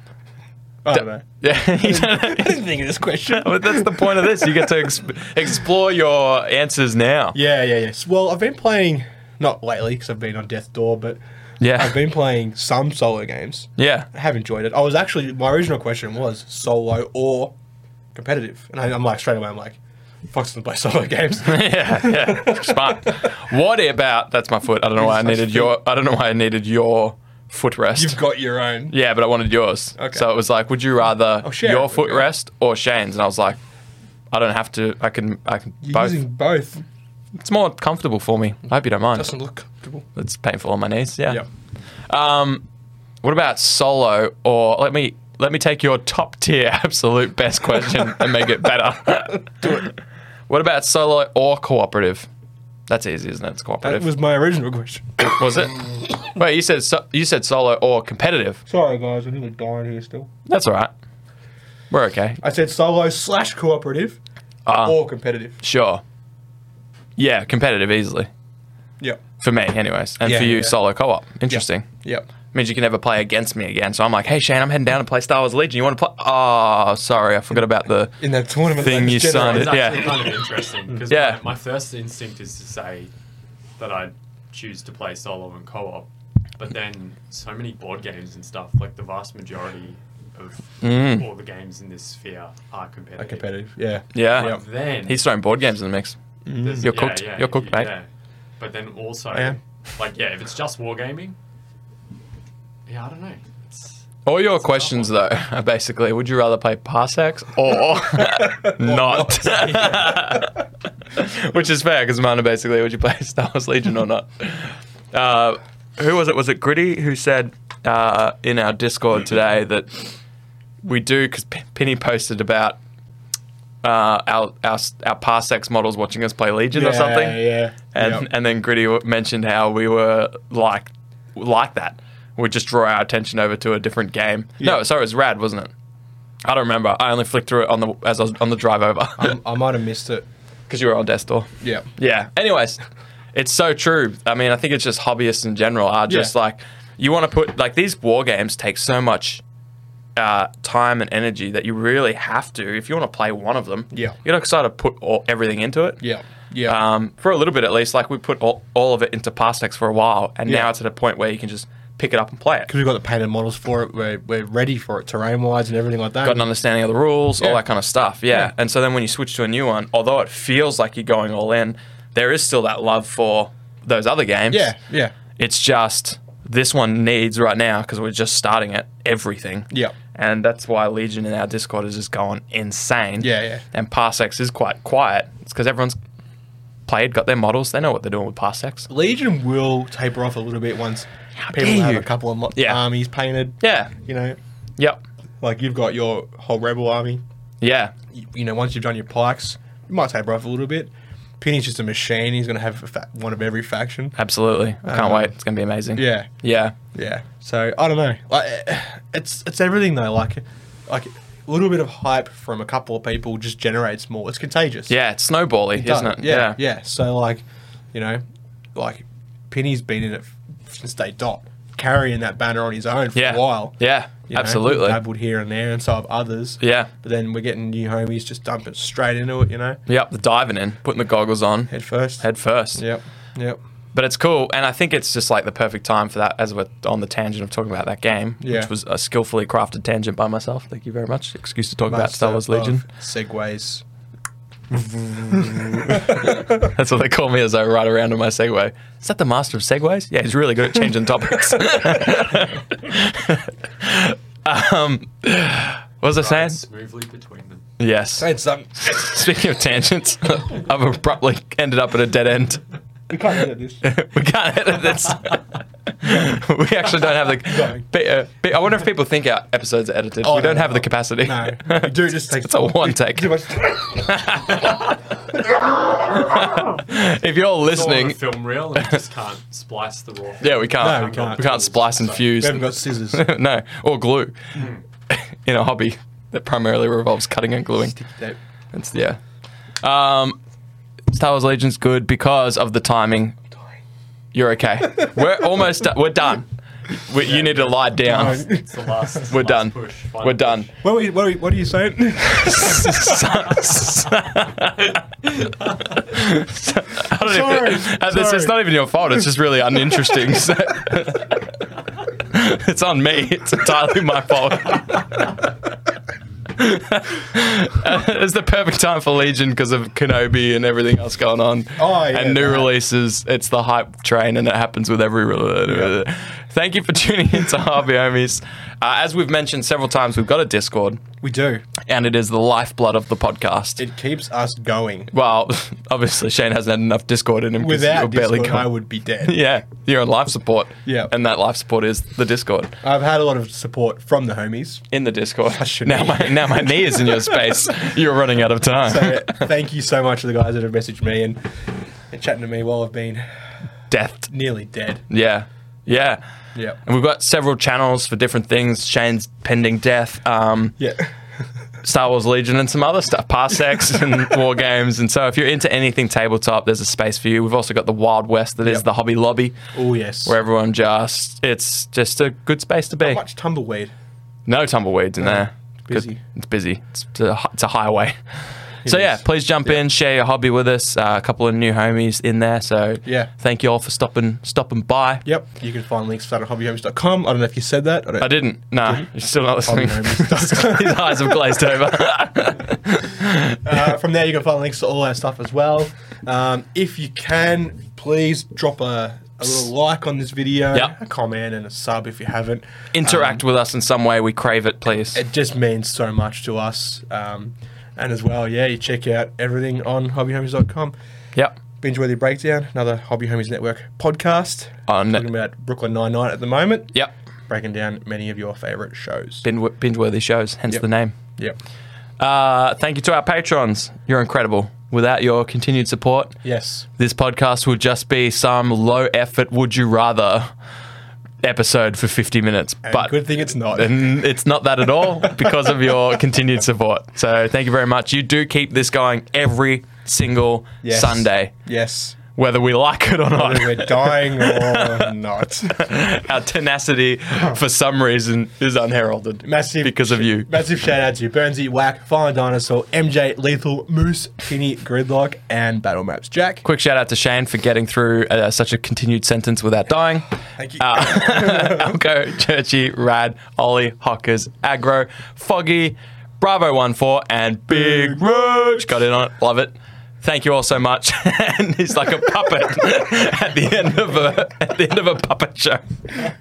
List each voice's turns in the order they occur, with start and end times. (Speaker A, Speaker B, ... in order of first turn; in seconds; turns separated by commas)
Speaker A: 0.8-4.7, Speaker B: 0.9-2.6, Speaker B: 3.3-7.4, Speaker A: 7.3-11.2, Speaker B: 11.6-12.0, Speaker A: 11.7-17.6, Speaker B: 13.8-14.1, Speaker A: 18.1-23.2, Speaker B: 21.4-28.2, Speaker A: 24.9-25.8, Speaker A: 28.0-28.9, Speaker B: 28.9-33.6, Speaker A: 30.0-30.3, Speaker A: 31.4-32.3, Speaker B: 34.3-36.2, Speaker A: 35.8-36.8, Speaker B: 37.4-39.3, Speaker A: 39.1-40.0, Speaker B: 40.1-41.4, Speaker B: 42.1-42.6, Speaker B: 43.2-49.9, Speaker A: 49.6-49.9, Speaker B: 50.5-52.3, Speaker B: 52.9-54.1, Speaker A: 53.8-55.3, Speaker B: 55.2-58.6, Speaker A: 58.7-60.3, Speaker B: 60.5-60.9, Speaker B: 61.9-62.4, Speaker A: 62.4-65.6, Speaker B: 64.7-65.0, Speaker B: 65.6-66.0, Speaker B: 67.2-68.3, Speaker B: 69.4-71.9, Speaker A: 70.2-70.8, Speaker A: 71.5-72.3, Speaker B: 72.5-78.2, Speaker A: 78.2-80.0, Speaker B: 78.8-80.4, Speaker C: 79.1-83.1, Speaker B: 81.1-81.4, Speaker C: 83.8-93.7, Speaker B: 90.8-91.3, Speaker A: 93.2-94.6, Speaker B: 94.1-96.2, Speaker C: 94.2-95.2, Speaker A: 96.5-96.9, Speaker C: 96.5-98.1, Speaker B: 96.8-97.9, Speaker C: 98.6-101.4, Speaker C: 102.9-105.2, Speaker B: 104.2-120.1, Speaker A: 108.2-110.1, Speaker C: 109.5-110.3, Speaker B: 120.8-122.8, Speaker B: 123.8-135.7, Speaker A: 126.7-128.3, Speaker B: 136.4-139.4, Speaker A: 139.2-140.3, Speaker B: 140.7-142.8, Speaker A: 141.6-141.9, Speaker B: 143.3-149.4, Speaker A: 146.1-146.3, Speaker B: 150.2-156.1, Speaker A: 153.9-154.2, Speaker A: 156.0-156.8, Speaker B: 156.7-162.7, Speaker A: 162.7-166.4, Speaker B: 166.2-174.8, Speaker A: 174.5-175.2, Speaker B: 175.3-186.0, Speaker A: 183.2-183.6, Speaker B: 186.9-188.9, Speaker A: 188.9-194.4, Speaker B: 191.4-192.8, Speaker B: 193.6-193.9, Speaker A: 195.4-197.2, Speaker B: 197.6-197.9, Speaker A: 198.1-204.2, Speaker B: 204.2-206.8, Speaker A: 204.8-205.3, Speaker A: 205.9-206.3, Speaker A: 206.9-214.9, Speaker B: 214.9-216.6, Speaker A: 215.8-218.2, Speaker A: 218.8-229.8, Speaker B: 223.2-225.0, Speaker B: 226.6-226.9, Speaker B: 229.9-232.8, Speaker A: 231.7-232.2, Speaker A: 232.8-233.6, Speaker B: 233.9-242.8, Speaker A: 238.4-238.7, Speaker A: 241.9-243.8, Speaker B: 245.0-256.6, Speaker A: 245.3-246.5, Speaker C: 256.1-257.6, Speaker B: 257.8-262.6, Speaker A: 258.2-258.8, Speaker A: 263.1-263.9, Speaker B: 263.8-273.4, Speaker A: 267.4-267.8, Speaker A: 270.2-274.1, Speaker B: 273.9-275.0, Speaker B: 276.0-278.2, Speaker C: 277.6-282.5, Speaker B: 280.4-284.4, Speaker A: 280.8-281.5, Speaker A: 282.4-283.3, Speaker B: 285.1-288.0, Speaker A: 287.9-288.4, Speaker B: 288.7-289.2, Speaker B: 289.8-290.4, Speaker B: 291.1-293.4, Speaker B: 294.3-298.5, Speaker C: 297.2-300.7, Speaker A: 298.0-298.8, Speaker B: 299.3-300.7, Speaker A: 300.8-303.2, Speaker B: 302.3-305.0, Speaker C: 305.2-306.0, Speaker B: 306.1-311.4, Speaker A: 307.1-308.7, Speaker B: 312.2-315.3, Speaker B: 316.6-331.0, Speaker A: 321.8-322.7, Speaker A: 325.7-326.0, Speaker A: 331.2-331.7, Speaker B: 331.9-333.8, Speaker A: 333.8-335.1, Speaker B: 335.1-342.8, Speaker A: 337.6-339.4, Speaker A: 340.9-341.1, Speaker A: 342.8-344.8, Speaker B: 344.9-349.5, Speaker A: 345.5-347.5, Speaker A: 348.8-351.4, Speaker A: 352.1-353.3, Speaker B: 353.9-354.3, Speaker A: 354.3-355.0, Speaker B: 355.1-356.2, Speaker B: 356.8-360.8, Speaker A: 360.8-361.1, Speaker B: 361.8-369.6, Speaker A: 368.6-368.9, Speaker A: 369.7-370.4, Speaker B: 370.2-373.2, Speaker A: 373.0-373.9, Speaker B: 374.5-378.2, Speaker A: 375.2-376.2, Speaker A: 378.9-379.8, Speaker B: 378.9-385.3, Speaker A: 383.0-383.3, Speaker A: 385.2-389.1, Speaker B: 388.2-393.8, Speaker A: 389.6-391.4, Speaker A: 393.6-403.4, Speaker B: 402.9-405.2, Speaker A: 405.1-410.9, Speaker A: 411.8-416.9, Speaker B: 414.9-415.3, Speaker A: 417.5-419.4, Speaker B: 419.4-421.1, Speaker B: 422.2-426.4, Speaker A: 426.4-426.9, Speaker B: 427.0-430.5, Speaker B: 431.4-441.5, Speaker A: 432.8-434.1, Speaker A: 440.8-442.2, Speaker B: 442.4-445.1, Speaker A: 443.4-445.9, Speaker B: 445.7-450.5, Speaker A: 449.4-456.6, Speaker B: 456.6-476.2, Speaker A: 460.6-461.9, Speaker A: 467.8-468.2